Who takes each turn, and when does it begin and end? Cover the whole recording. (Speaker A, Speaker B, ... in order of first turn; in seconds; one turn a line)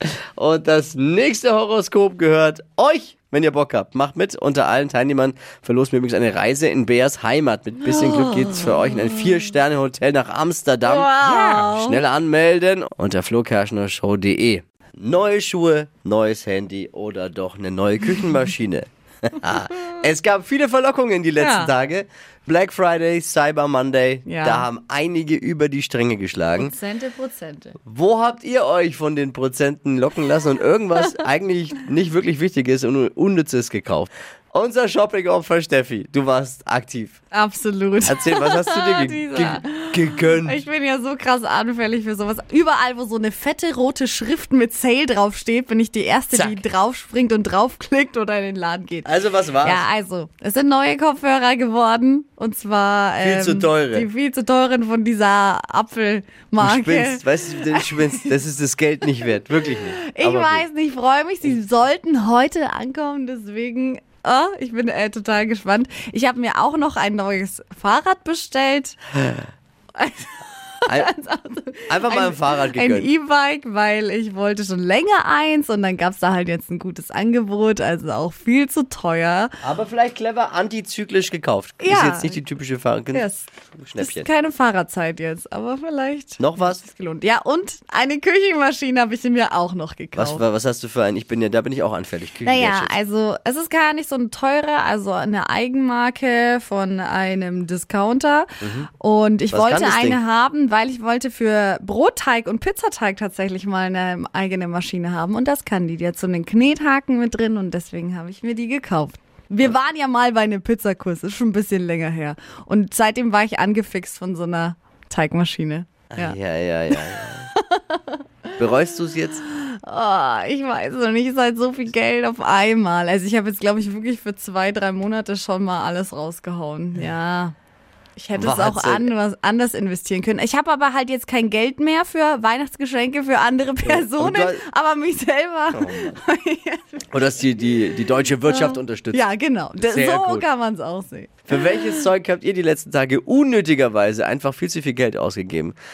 Speaker A: 0.4-26.7
Speaker B: 7.8-9.2
Speaker B: 10.8-12.0
Speaker B: 21.4-21.7
Speaker B: 24.2-24.7
Speaker B: 26.6-27.8
Speaker A: 27.8-37.2
Speaker B: 37.3-58.2
Speaker A: 38.0-40.6
Speaker A: 46.3-46.6
Speaker A: 49.0-49.8
Speaker A: 53.2-54.1
Speaker A: 56.6-60.6
Speaker B: 60.0-69.1
Speaker B: 70.0-79.5
Speaker A: 71.9-73.1
Speaker A: 79.6-84.3
Speaker B: 81.8-82.4
Speaker B: 83.1-83.5
Speaker B: 84.0-90.4
Speaker A: 86.4-86.8
Speaker A: 90.1-92.9
Speaker B: 92.4-116.4
Speaker A: 98.6-98.9
Speaker A: 99.5-100.2
Speaker A: 116.1-117.5
Speaker B: 117.5-118.2
Speaker A: 118.6-119.4
Speaker B: 119.6-127.5
Speaker B: 128.2-137.1
Speaker A: 128.3-129.1
Speaker A: 133.8-134.6
Speaker A: 135.7-136.2
Speaker A: 137.1-139.2
Speaker B: 138.4-142.0
Speaker A: 139.8-140.4
Speaker A: 141.5-145.8